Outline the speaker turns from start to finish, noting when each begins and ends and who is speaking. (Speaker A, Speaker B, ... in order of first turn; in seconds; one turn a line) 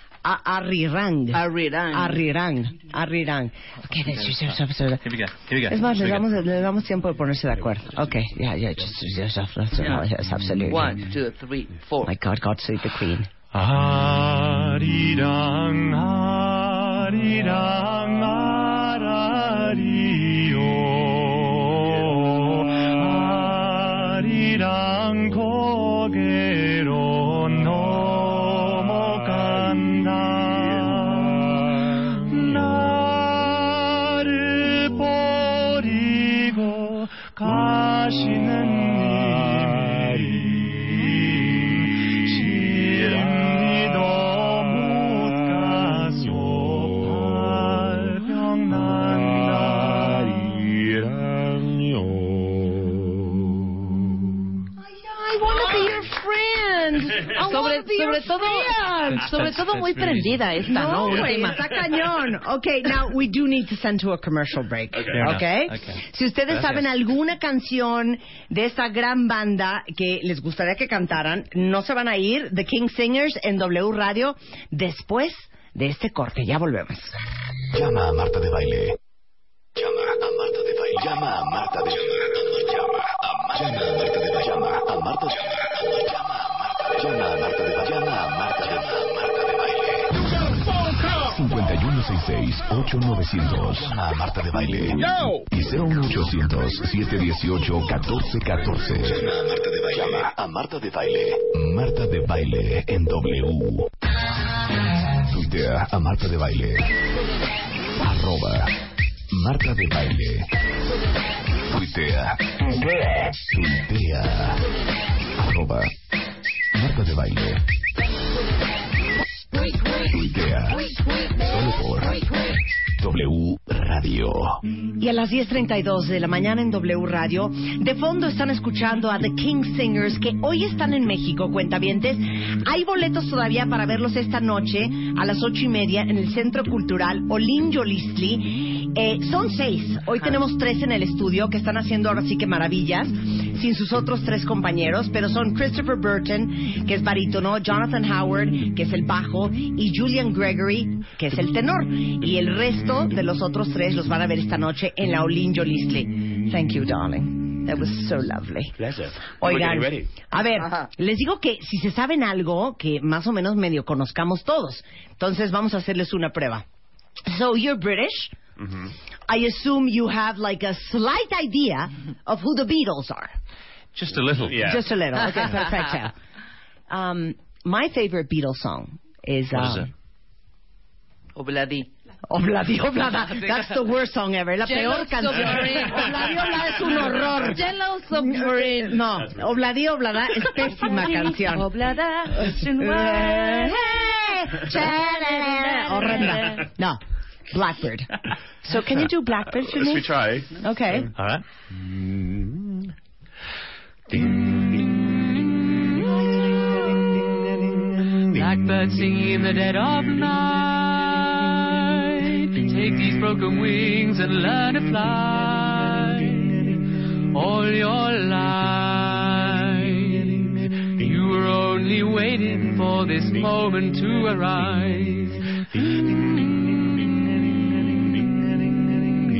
Speaker A: 0.2-5.1
Speaker B: 1.3-2.2
Speaker C: 4.2-6.3
Speaker A: 5.7-11.0
Speaker B: 9.8-10.0
Speaker B: 10.7-12.1
Speaker A: 12.0-13.3
Speaker C: 13.5-21.0
Speaker D: 21.7-22.4
Speaker C: 23.1-30.3
Speaker D: 30.4-31.0
Speaker C: 32.5-40.1
Speaker C: 42.3-49.3
Speaker D: 49.4-52.8
Speaker A: 54.8-59.3
Speaker B: 57.3-61.6
Speaker C: 59.2-60.3
Speaker A: 60.7-77.1
Speaker D: 61.0-61.5
Speaker D: 64.9-65.3
Speaker C: 65.1-66.8
Speaker E: 77.7-79.0
Speaker E: 79.8-85.5
Speaker E: 86.8-90.1
Speaker E: 90.8-103.9
Speaker E: 105.3-106.9
Speaker E: 108.0-108.7
Speaker E: 109.3-110.5
Speaker E: 111.7-114.6
Speaker E: 115.4-115.9
Speaker E: 116.7-117.6
Speaker E: 120.0-122.3
Speaker E: 123.0-124.6
Speaker A: 125.0-158.7
Speaker D: 158.8-160.1
Speaker A: 159.3-166.6
Speaker A: 167.2-168.3
Speaker D: 168.6-168.9
Speaker A: 169.3-173.3
Speaker C: 173.9-174.7
Speaker D: 174.5-174.8
Speaker A: 174.6-176.1
Speaker A: 176.9-179.9
Speaker C: 179.5-179.9
Speaker B: 181.3-181.8
Speaker A: 182.3-191.7
Speaker B: 184.6-186.4
Speaker B: 187.3-189.0
Speaker D: 189.2-189.6
Speaker B: 190.7-196.7
Speaker A: 192.4-198.1
Speaker A: 198.6-201.1
Speaker D: 199.5-201.1
Speaker C: 201.2-201.4
Speaker F: 208.3-216.8
Speaker F: 217.3-225.4
Speaker F: 226.1-226.7